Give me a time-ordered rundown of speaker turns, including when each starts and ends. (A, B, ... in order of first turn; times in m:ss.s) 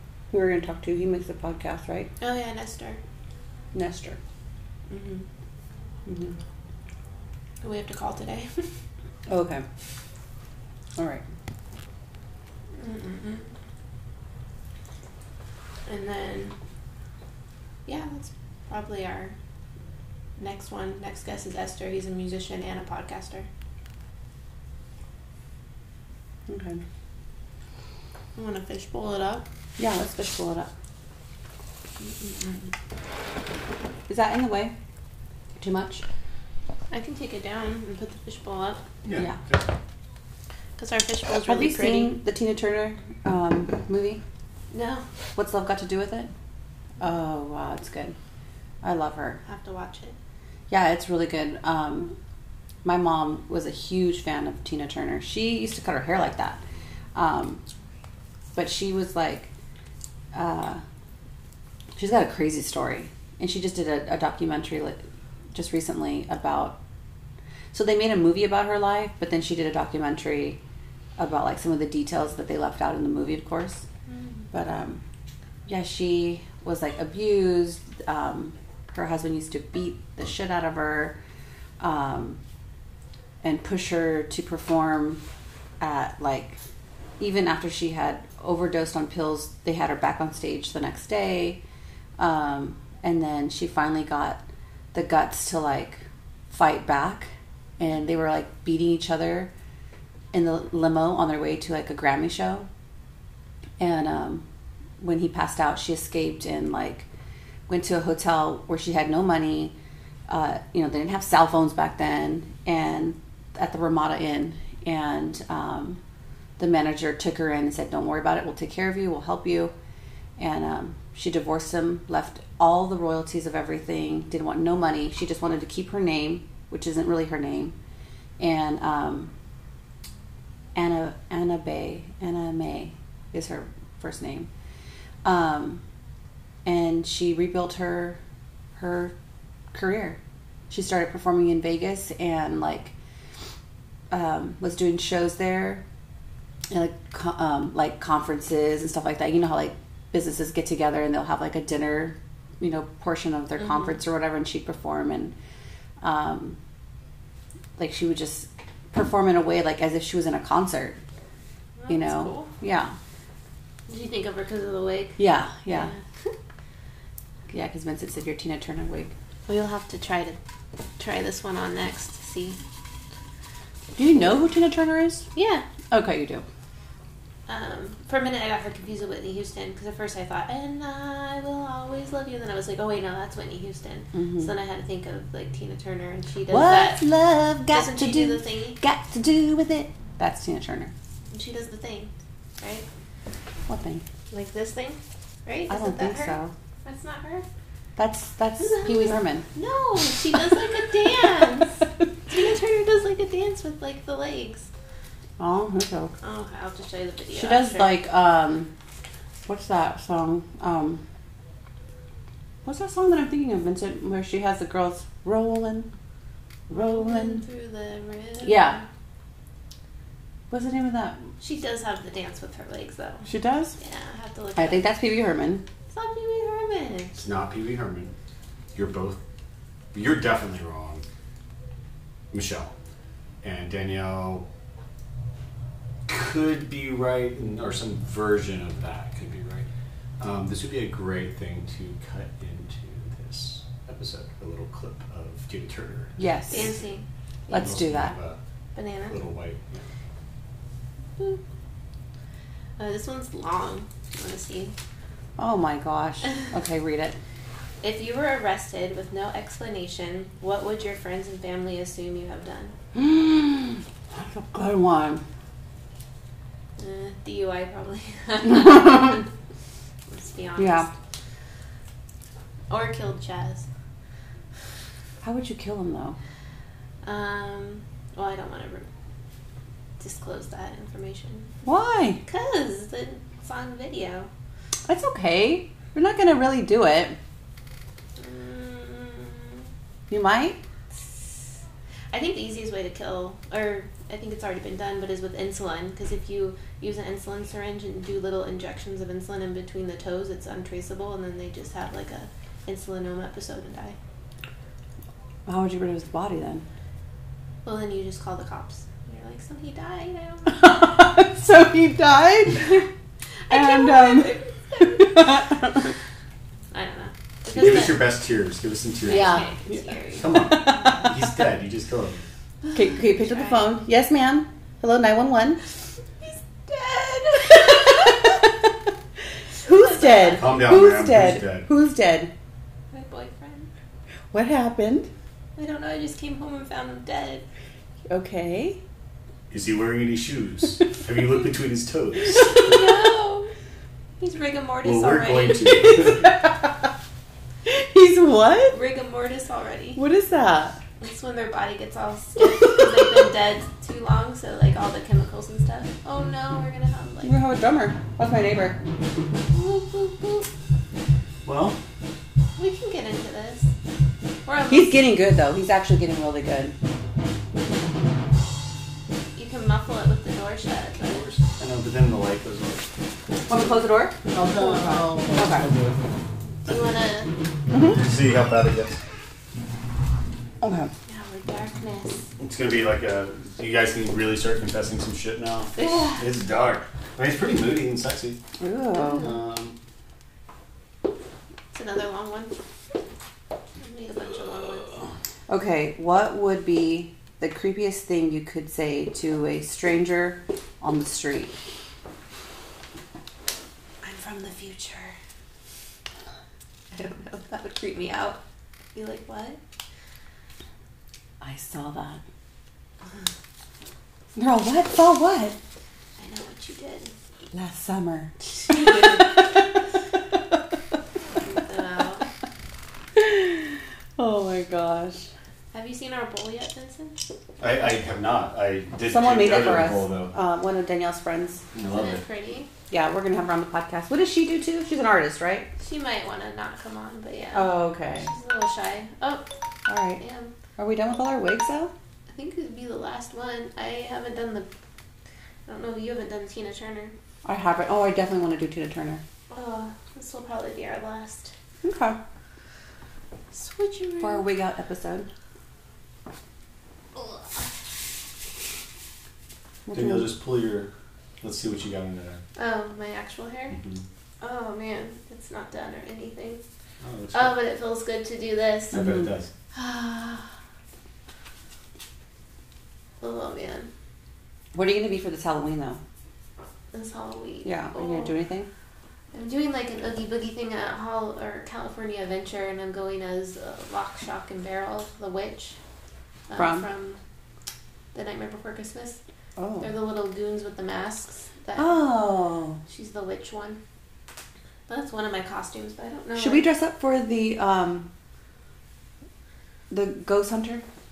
0:00.3-0:02.1 A
0:02.2-0:03.0 B
0:03.7-0:04.2 A
0:04.9-0:05.2 B
0:06.0-0:06.3 A
0:07.6-0:08.7 B
0:09.3-0:09.6 A
0:11.0-0:11.2 A
0:12.8-0:13.5 B
0:15.9-0:16.6 B
0:17.8-0:19.4 B
0:20.4-0:23.5 B
0:26.5-0:26.8 A
0:28.4-0:29.4 B
0:29.8-0:30.7 A
0:34.1-0:34.7 A
0:35.6-0:36.0 A
0:36.9-0:38.8 B
0:39.0-0:39.6 C
0:39.1-0:39.4 A
0:40.8-0:42.2 B
0:41.4-0:44.2 A
0:44.7-0:45.0 B
0:45.3-0:46.3 A
0:47.0-0:48.2 A
0:48.8-0:49.4 A
0:49.4-0:50.2 B
0:50.7-0:52.1 A
0:52.8-0:56.6 A
0:57.1-0:57.6 A
0:58.5-0:59.5 A
1:00.3-1:00.8 A
1:02.0-1:05.0 A
1:05.5-1:06.8 A
1:07.7-1:10.6 A
1:11.2-1:13.8 A
1:14.1-1:14.4 B
1:14.5-1:15.0 A
1:15.6-1:21.2 A
1:21.8-1:22.4 A
1:23.4-1:25.2 A
1:25.8-1:26.6 A
1:27.2-1:31.6 A
1:32.2-1:34.4 A
1:34.9-1:39.5 A
1:40.3-1:42.7 A
1:43.8-1:44.4 A
1:45.0-1:47.1 A
1:47.7-1:49.7 A
1:50.3-1:56.0 A
1:56.6-1:59.7 A
2:00.4-2:07.7 A
2:08.4-2:09.3 A
2:10.7-2:14.5 A
2:15.2-2:15.8 A
2:16.6-2:18.2 A
2:18.7-2:19.1 A
2:19.7-2:20.2 A
2:20.7-2:22.9 A
2:24.1-2:25.8 A
2:26.7-2:35.3 A
2:36.0-2:36.6 A
2:37.8-2:41.0 A
2:41.8-2:42.5 B
2:41.9-2:43.0 A
2:43.9-2:46.3 B
2:45.2-2:45.9 A
2:47.5-2:49.1 A
2:49.5-2:50.4 B
2:51.0-2:52.6 B
2:54.0-2:55.3 A
2:55.3-2:55.7 B
2:55.9-2:56.4 A
2:57.5-3:07.0 B
3:04.1-3:04.5 A
3:06.5-3:10.9 A
3:07.7-3:08.8 B
3:11.3-3:12.8 B
3:13.7-3:14.0 A
3:14.3-3:17.5 B
3:15.7-3:16.5 A
3:18.0-3:19.4 A
3:18.6-3:24.7 B
3:25.4-3:26.1 A
3:26.2-3:27.9 B
3:27.3-3:28.7 A
3:29.4-3:31.0 A
3:32.6-3:35.9 A
3:36.7-3:37.4 A
3:36.7-3:38.8 B
3:38.4-3:38.8 A
3:40.5-3:41.2 A
3:41.4-3:43.2 B
3:43.2-3:43.8 A
3:43.8-3:44.9 B
3:44.6-3:45.6 A
3:45.9-3:47.1 B
3:47.2-3:48.1 C
3:48.7-3:49.2 C
3:49.9-3:51.0 C
3:52.3-3:52.7 C
3:53.4-3:54.4 C
3:56.1-3:59.7 C
4:00.2-4:06.8 C
4:06.2-4:06.7 A
4:06.5-4:07.0 B
4:07.5-4:08.1 A
4:07.5-4:08.4 C
4:08.7-4:09.2 B
4:09.1-4:09.8 C
4:12.8-4:14.7 B
4:15.4-4:17.2 A
4:17.8-4:22.8 B
4:22.9-4:25.2 A
4:26.8-4:29.2 B
4:28.4-4:29.2 A
4:30.1-4:30.9 B
4:30.6-4:30.9 A
4:32.7-4:33.6 B
4:35.2-4:36.2 A
4:37.0-4:38.9 B
4:40.0-4:41.6 B
4:41.6-4:42.2 A
4:42.2-4:44.3 B
4:44.9-4:47.2 A
4:48.2-4:49.7 B
4:50.1-4:50.6 A
4:50.9-5:04.0 B
5:05.4-5:06.6 A
5:07.6-5:10.8 B
5:10.5-5:12.9 A
5:13.5-5:15.5 B
5:13.5-5:15.9 A
5:16.7-5:18.1 B
5:17.5-5:19.5 C
5:19.0-5:21.1 B
5:19.1-5:21.1 A
5:20.2-5:22.2 C
5:22.6-5:23.7 B
5:22.7-5:25.6 A
5:26.2-5:28.3 B
5:27.5-5:28.5 A
5:29.6-5:32.3 A
5:29.6-5:30.6 B
5:30.3-5:31.7 C
5:32.9-5:33.7 B
5:34.3-5:35.1 A
5:35.6-5:37.4 B
5:38.1-5:38.8 A
5:39.5-5:42.9 C
5:42.4-5:43.5 B
5:44.2-5:46.2 B
5:44.8-5:46.3 C
5:47.6-5:48.7 A
5:48.7-5:50.0 B
5:50.0-5:50.8 A
5:51.0-5:57.4 B
5:57.2-5:58.8 A
5:59.5-6:00.5 B
6:01.4-6:01.8 C
6:02.6-6:03.7 B
6:04.4-6:05.1 B
6:04.7-6:06.8 A
6:09.4-6:11.2 B
6:11.0-6:12.8 C
6:13.5-6:15.7 A
6:14.3-6:16.0 C
6:16.6-6:17.3 B
6:17.7-6:18.0 A
6:17.7-6:19.0 C
6:20.6-6:20.9 A
6:21.1-6:22.3 B
6:22.4-6:28.4 C
6:25.8-6:26.2 B
6:28.6-6:29.2 A
6:28.9-6:29.3 B
6:29.1-6:29.8 C
6:31.7-6:32.5 B
6:33.8-6:35.0 B
6:35.5-6:41.5 A
6:44.0-6:45.2 B
6:46.9-6:48.4 B
6:48.9-6:49.6 B
6:51.4-6:52.2 A
6:54.4-6:55.6 A
6:56.2-6:57.1 B
6:57.5-6:59.6 A
6:58.8-6:59.2 B
7:01.3-7:02.2 B
7:03.1-7:05.3 A
7:05.7-7:07.2 B
7:07.6-7:10.3 C
7:09.1-7:11.6 A
7:11.7-7:12.2 C
7:11.8-7:12.7 B
7:12.9-7:15.7 A
7:15.8-7:19.5 B
7:17.5-7:18.3 A
7:19.8-7:20.2 A
7:20.2-7:20.5 B
7:20.8-7:21.9 A
7:22.3-7:24.7 B
7:25.6-7:27.1 B
7:27.4-7:29.2 A
7:29.5-7:31.5 B
7:31.8-7:32.2 A
7:33.5-7:34.4 B
7:34.2-7:35.3 A
7:37.2-7:37.6 B
7:39.8-7:40.3 A
7:39.9-7:42.4 C
7:42.6-7:43.8 B
7:43.7-7:44.0 C
7:44.4-7:46.6 B
7:47.0-7:47.6 C
7:47.3-7:49.0 B
7:48.9-7:49.5 C
7:48.9-7:49.3 A
7:49.7-7:50.5 B
7:53.2-7:53.9 B
7:54.7-7:56.0 A
7:56.9-7:58.3 B
7:57.6-7:58.7 A
7:59.3-8:05.8 B
8:06.5-8:07.2 B
8:06.6-8:06.9 A
8:08.1-8:09.2 B
8:09.6-8:09.9 A
8:09.8-8:12.0 B
8:11.8-8:12.8 A
8:12.9-8:13.8 B
8:14.9-8:16.6 B
8:16.4-8:18.1 A
8:19.9-8:20.8 A